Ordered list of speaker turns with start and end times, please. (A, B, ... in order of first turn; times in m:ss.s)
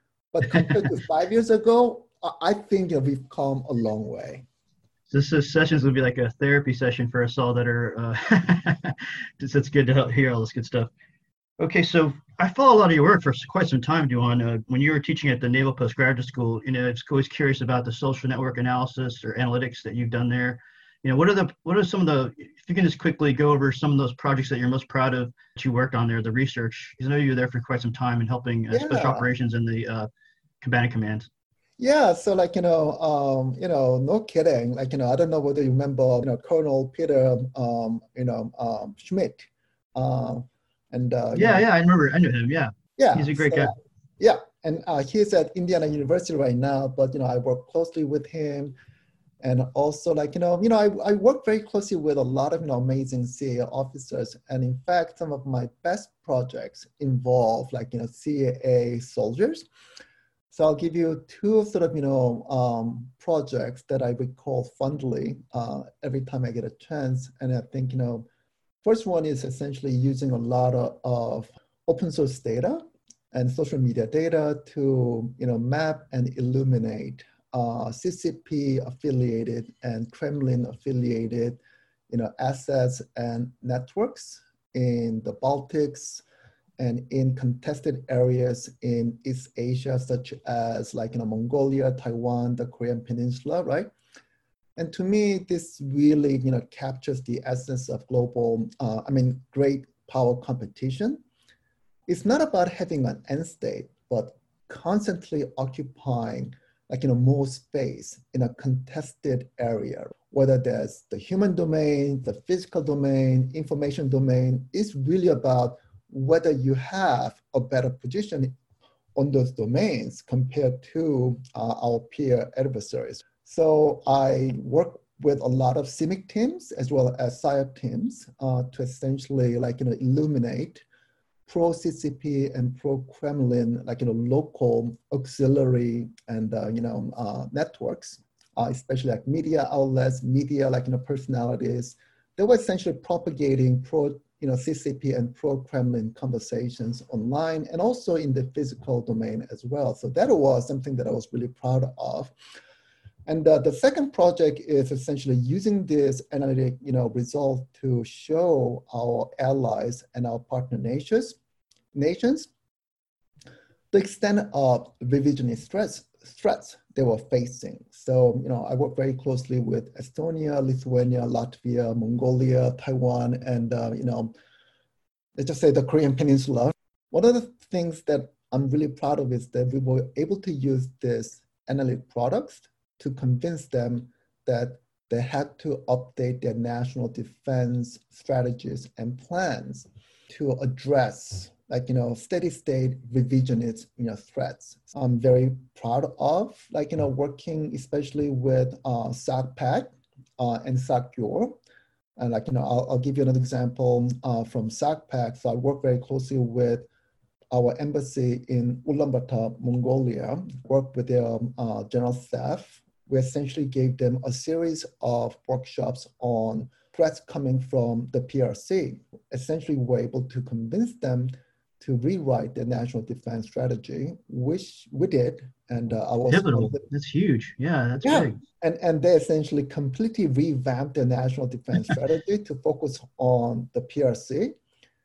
0:00.3-0:04.5 A
0:05.1-0:10.9 B
0:11.6-0:30.1 B
0:28.7-0:29.3 A
0:30.6-0:31.3 B
0:31.8-0:41.7 A
0:41.4-0:43.7 B
0:43.0-0:48.8 A
0:49.4-0:59.7 A
1:00.5-1:08.3 A
1:08.8-1:26.2 A
1:26.8-1:33.9 A
1:34.8-1:41.2 A
1:42.1-1:58.5 A
1:59.2-2:10.8 A
2:11.5-2:32.3 A
2:33.3-2:41.4 A
2:41.9-2:42.5 A
2:43.9-2:54.3 A
2:55.4-3:21.6 A
3:22.2-3:26.9 A
3:27.5-3:46.9 A
3:46.3-3:48.4 B
3:48.0-3:54.6 A